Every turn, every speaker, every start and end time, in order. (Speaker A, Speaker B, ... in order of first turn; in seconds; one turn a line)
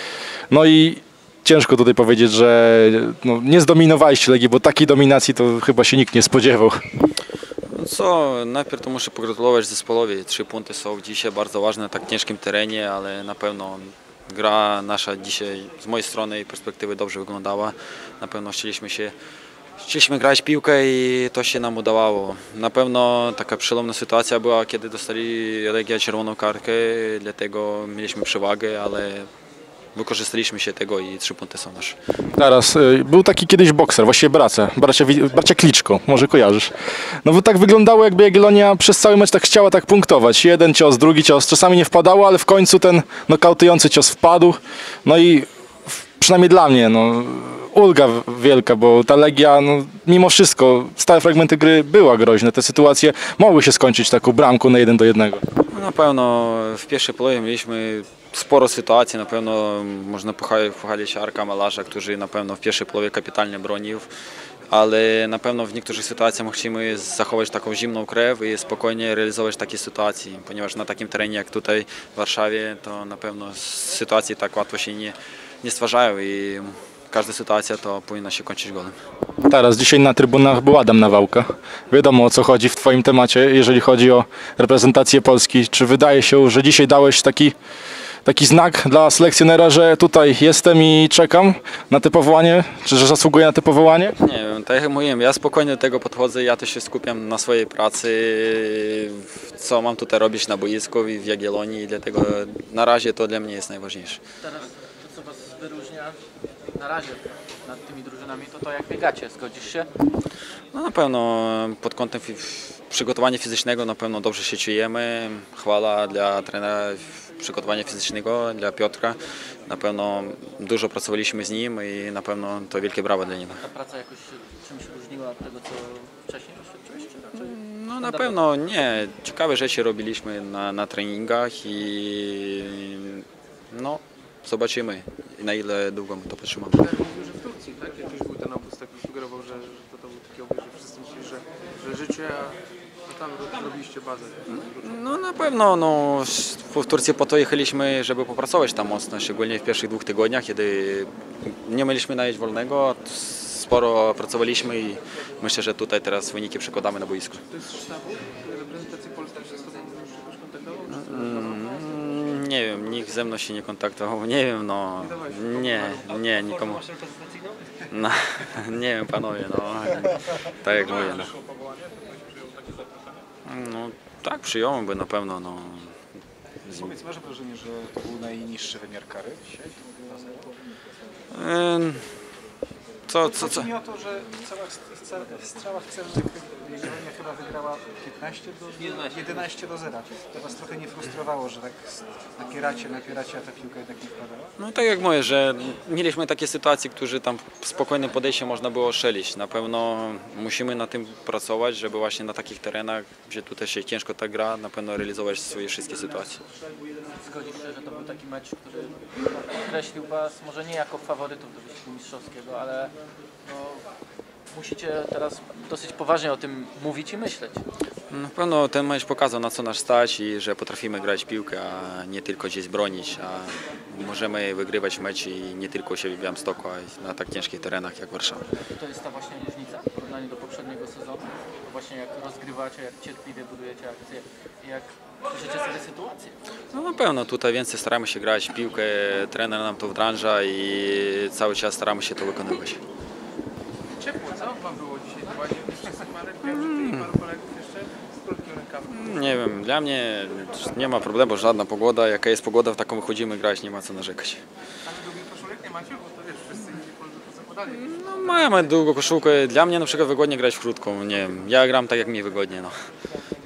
Speaker A: 0.5-6.8
Speaker B: 7.7-19.1
Speaker B: 19.8-29.3
Speaker B: 29.9-31.9
Speaker A: 32.3-36.7
Speaker A: 37.2-55.4
Speaker B: 55.7-64.1
Speaker B: 64.7-79.0
Speaker A: 79.4-87.5
Speaker A: 88.2-94.2
Speaker B: 94.2-104.2
Speaker C: 104.4-106.2
Speaker C: 106.7-109.9
Speaker B: 110.7-123.6
Speaker C: 123.6-128.4
Speaker B: 127.4-136.8
Speaker D: 136.7-145.0
Speaker B: 144.5-157.4
Speaker D: 157.5-161.9
Speaker B: 160.9-166.9
Speaker D: 165.0-166.2
Speaker B: 167.9-171.3
Speaker D: 170.9-172.8
Speaker B: 173.4-175.9
Speaker E: 176.7-180.5
Speaker B: 181.3-182.1
Speaker B: 183.1-183.7
Speaker E: 183.2-194.5
Speaker B: 194.6-206.4
Speaker C: 207.1-213.8
Speaker C: 214.5-217.6
Speaker B: 218.1-228.4
Speaker C: 228.6-236.4
Speaker B: 236.7-242.8
Speaker D: 243.9-249.4
Speaker B: 246.4-247.1
Speaker B: 248.9-254.4
Speaker D: 254.8-258.8
Speaker B: 257.7-262.7